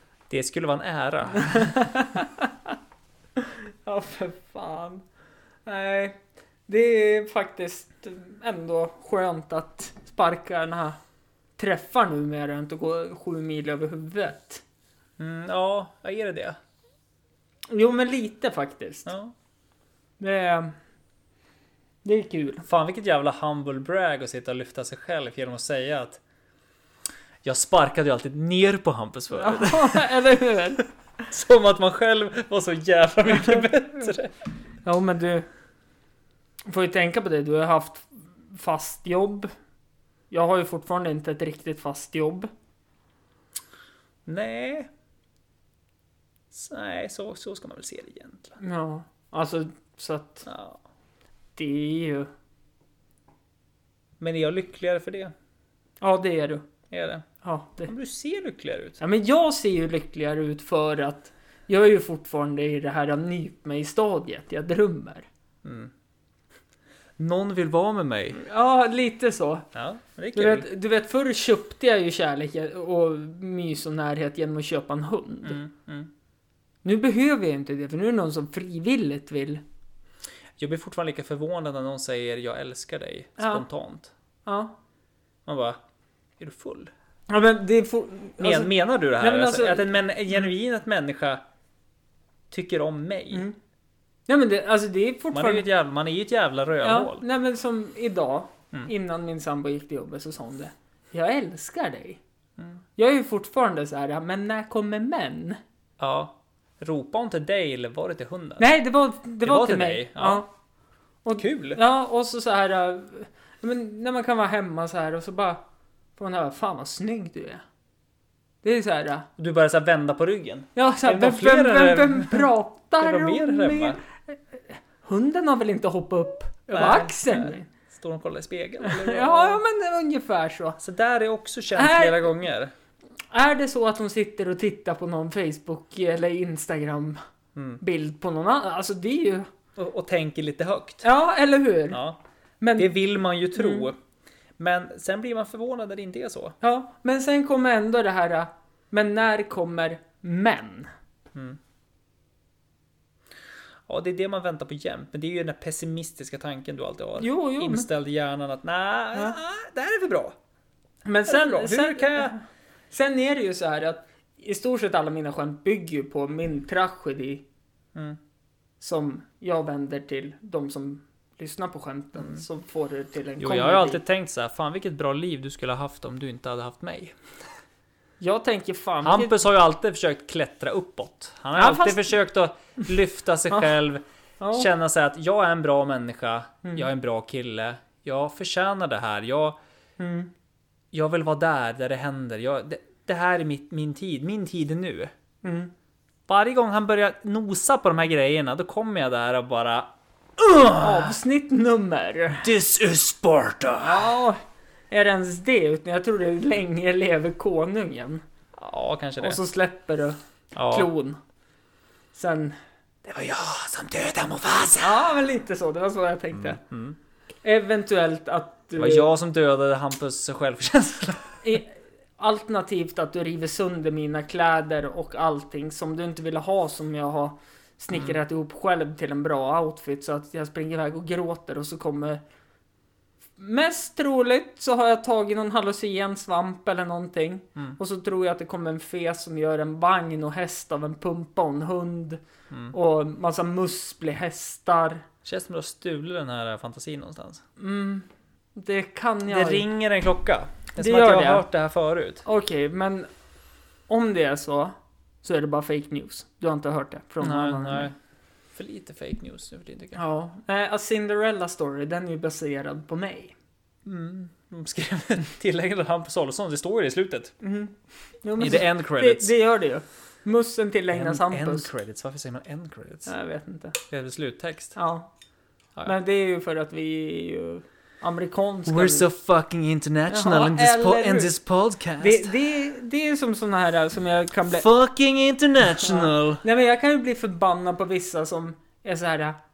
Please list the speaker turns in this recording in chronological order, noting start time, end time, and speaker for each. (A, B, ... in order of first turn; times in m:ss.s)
0:00.3-0:01.9 A
0:01.4-0:02.5 B
0:03.4-0:05.0 B
0:05.7-0:11.0 B
0:11.6-0:14.6 B
0:15.2-0:16.6 A
0:17.7-0:19.1 B
0:19.1-0:19.3 A
0:20.2-0:20.7 B
0:22.0-0:22.6 B
0:22.6-0:26.2 A
0:27.4-0:30.2 A
0:29.3-0:30.8 B
0:30.8-0:34.3 A
0:34.8-0:35.5 B
0:36.7-0:39.5 B
0:40.3-0:42.5 B
0:44.3-0:44.9 A
0:46.5-0:48.6 A
0:48.6-0:50.5 B
0:50.5-0:50.8 A
0:51.6-0:52.3 B
0:54.2-0:55.3 A
0:56.0-0:56.7 B
0:56.9-0:57.3 A
0:57.4-0:57.9 B
0:57.9-0:59.0 A
0:59.0-1:05.3 B
1:05.6-1:05.9 A
1:07.2-1:08.4 A
1:08.3-1:09.7 B
1:09.7-1:10.7 A
1:10.3-1:15.6 B
1:15.4-1:16.1 A
1:16.8-1:19.6 B
1:20.6-1:24.1 A
1:23.4-1:23.6 B
1:24.5-1:24.7 B
1:25.5-1:25.8 A
1:26.4-1:26.9 A
1:27.3-1:30.0 B
1:28.4-1:31.4 A
1:32.5-1:33.5 A
1:34.3-1:35.6 B
1:35.3-1:37.2 A
1:36.8-1:42.2 B
1:43.0-1:45.6 B
1:46.0-1:48.6 A
1:48.6-1:50.5 B
1:49.4-1:50.4 A
1:51.2-1:55.6 B
1:51.4-1:51.8 A
1:56.2-1:57.6 B
1:58.6-1:59.3 B
1:59.4-2:04.0 A
2:00.8-2:07.7 B
2:06.7-2:09.6 A
2:08.8-2:10.8 B
2:10.8-2:12.7 A
2:11.8-2:12.4 B
2:13.3-2:17.2 B
2:17.6-2:17.8 A
2:17.8-2:19.5 B
2:19.8-2:21.0 A
2:21.0-2:22.0 B
2:21.9-2:22.2 A
2:22.6-2:22.9 B
2:22.8-2:24.0 A
2:23.5-2:23.9 B
2:24.6-2:26.6 A
2:26.6-2:30.9 B
2:31.3-2:31.6 A
2:33.9-2:40.4 A
2:37.2-2:37.9 B
2:41.1-2:47.4 B
2:41.3-2:42.4 A
2:48.8-2:54.0 B
2:53.4-2:57.2 A
2:58.2-2:59.4 B
2:59.0-3:04.0 A
3:01.6-3:02.1 B
3:04.4-3:04.7 B
3:04.5-3:09.6 A
3:10.0-3:10.3 B
3:10.9-3:15.1 A
3:15.4-3:15.7 B
3:16.3-3:21.1 A
3:20.7-3:22.5 B
3:22.4-3:24.1 A
3:23.8-3:24.4 B
3:24.9-3:28.2 B
3:28.6-3:29.4 A
3:29.2-3:31.2 B
3:30.6-3:30.9 A
3:32.1-3:32.6 B
3:33.0-3:35.0 A
3:34.8-3:36.6 B
3:36.5-3:37.0 A
3:37.4-3:39.1 B
3:38.8-3:41.4 A
3:41.4-3:52.2 B
3:53.4-4:02.2 B
4:02.7-4:05.1 B
4:05.2-4:07.4 A
4:07.6-4:09.7 B
4:09.3-4:12.2 A
4:10.8-4:11.4 B
4:12.2-4:13.1 B
4:13.9-4:17.9 B
4:17.2-4:18.0 A
4:18.5-4:20.0 A
4:20.0-4:23.4 B
4:23.8-4:27.3 A
4:27.4-4:31.7 B
4:28.4-4:29.3 A
4:30.9-4:33.1 A
4:33.1-4:33.8 B
4:33.9-4:34.8 A
4:34.8-4:35.1 B
4:35.8-4:39.1 B
4:38.7-4:42.3 A
4:40.1-4:41.4 B
4:42.0-4:44.7 B
4:44.5-4:46.4 A
4:45.7-4:49.4 B